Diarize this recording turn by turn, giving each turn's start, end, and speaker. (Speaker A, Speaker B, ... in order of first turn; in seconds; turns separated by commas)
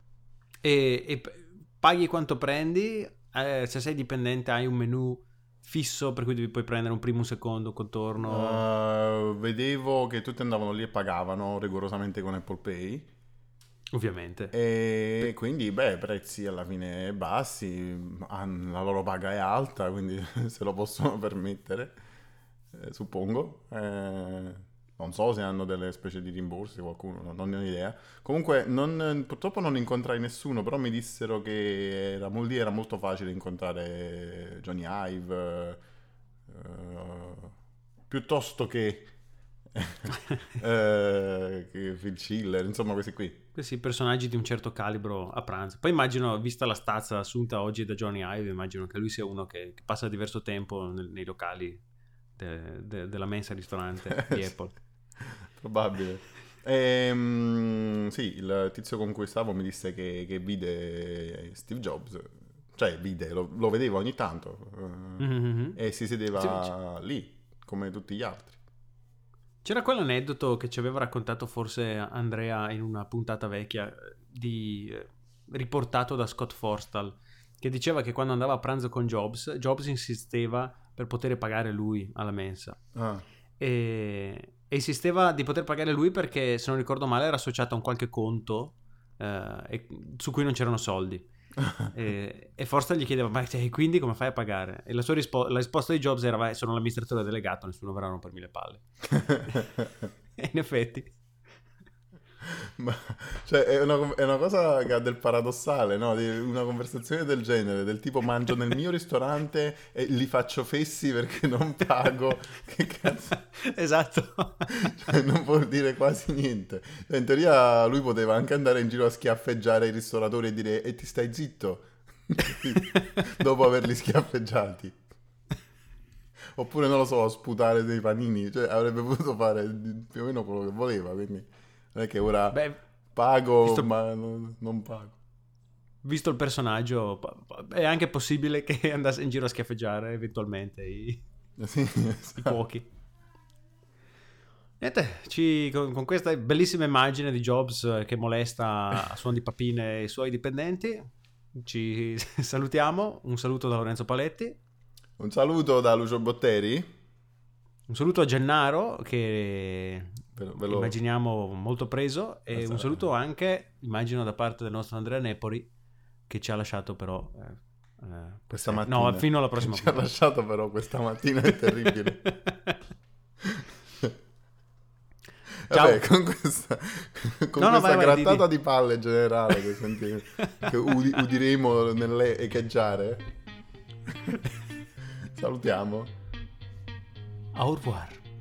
Speaker A: 0.6-8.6, Speaker B: 8.2-13.1, Speaker A: 13.9-14.5, Speaker B: 14.5-22.0, Speaker B: 22.7-35.8, Speaker B: 36.5-37.5, Speaker B: 38.1-39.1, Speaker B: 39.8-43.5, Speaker A: 43.5-51.8, Speaker A: 52.4-54.7, Speaker B: 54.1-54.5, Speaker B: 55.2-68.6, Speaker A: 65.2-65.8, Speaker A: 66.3-66.7, Speaker A: 69.6-82.8, Speaker B: 82.9-83.2, Speaker A: 83.6-91.3, Speaker A: 91.8-98.8, Speaker B: 99.1-100.1, Speaker A: 100.4-101.2, Speaker B: 102.8-113.4, Speaker A: 113.7-114.9, Speaker B: 114.7-124.9, Speaker B: 126.5-135.2, Speaker A: 132.5-132.8, Speaker A: 133.6-133.9, Speaker A: 136.0-141.2, Speaker B: 141.6-142.6, Speaker A: 142.4-142.9, Speaker A: 144.8-154.6, Speaker B: 155.2-156.9, Speaker A: 157.9-165.7, Speaker B: 160.4-160.9, Speaker B: 162.5-163.1, Speaker A: 166.3-170.0, Speaker B: 168.5-172.3, Speaker A: 171.7-172.7, Speaker B: 173.4-174.1, Speaker B: 175.7-183.2, Speaker A: 175.7-176.0, Speaker A: 177.6-178.4, Speaker B: 185.3-186.1, Speaker A: 187.6-188.2